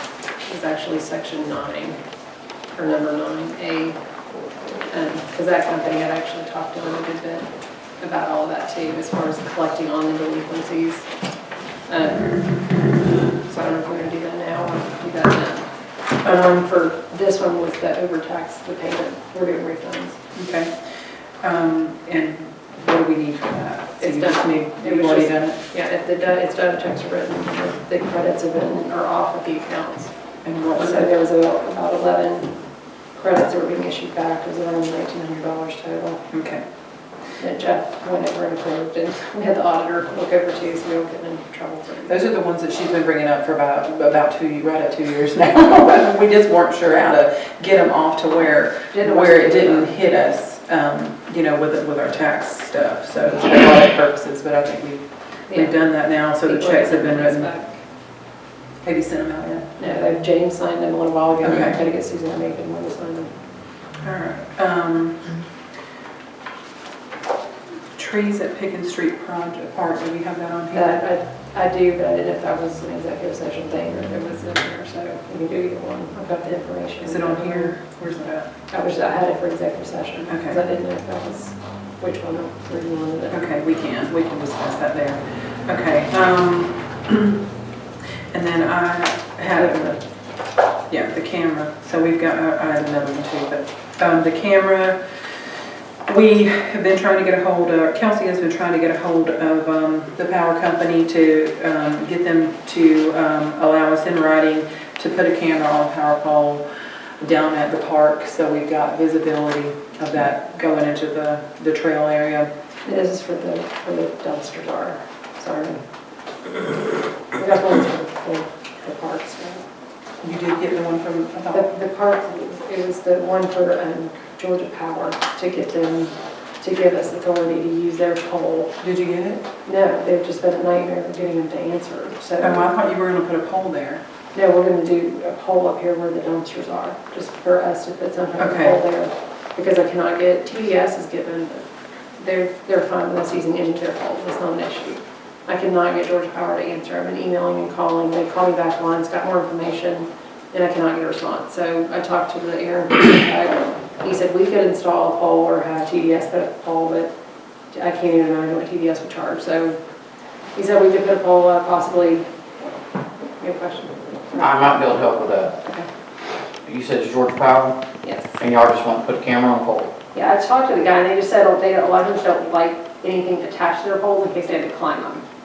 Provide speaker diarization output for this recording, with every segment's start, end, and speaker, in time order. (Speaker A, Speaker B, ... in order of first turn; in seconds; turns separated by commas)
Speaker A: 0.5-2.0, Speaker A: 2.7-4.0, Speaker A: 4.9-11.1, Speaker A: 11.9-12.3, Speaker A: 13.4-15.7, Speaker A: 16.2-20.2, Speaker B: 20.4-20.7, Speaker B: 21.4-25.6, Speaker A: 24.0-30.1, Speaker B: 30.4-31.1, Speaker A: 30.7-32.5, Speaker A: 33.1-36.2, Speaker B: 36.3-36.6, Speaker A: 37.4-42.2, Speaker B: 42.1-57.5, Speaker A: 48.9-50.0, Speaker A: 55.5-55.8, Speaker A: 56.4-57.8, Speaker B: 58.8-59.7, Speaker A: 59.8-63.3, Speaker B: 61.4-61.8, Speaker B: 64.0-65.3, Speaker B: 68.0-71.0, Speaker A: 70.7-77.8, Speaker B: 77.0-78.5, Speaker A: 78.7-83.5, Speaker B: 80.3-80.6, Speaker B: 83.3-87.4, Speaker B: 88.3-89.8, Speaker A: 89.5-90.0, Speaker B: 90.9-95.0, Speaker B: 96.0-106.6, Speaker B: 107.2-112.5, Speaker A: 112.8-115.8, Speaker A: 117.3-119.6, Speaker B: 120.2-121.7, Speaker A: 121.5-128.7, Speaker B: 128.8-129.4, Speaker A: 129.6-132.7, Speaker B: 132.4-134.0, Speaker A: 134.3-141.6, Speaker B: 138.4-138.8, Speaker A: 142.2-157.1, Speaker A: 157.7-159.8, Speaker A: 160.5-162.3, Speaker A: 163.4-165.0, Speaker C: 164.3-165.6, Speaker C: 166.6-167.8, Speaker A: 168.0-168.4, Speaker C: 168.4-169.9, Speaker A: 170.1-175.2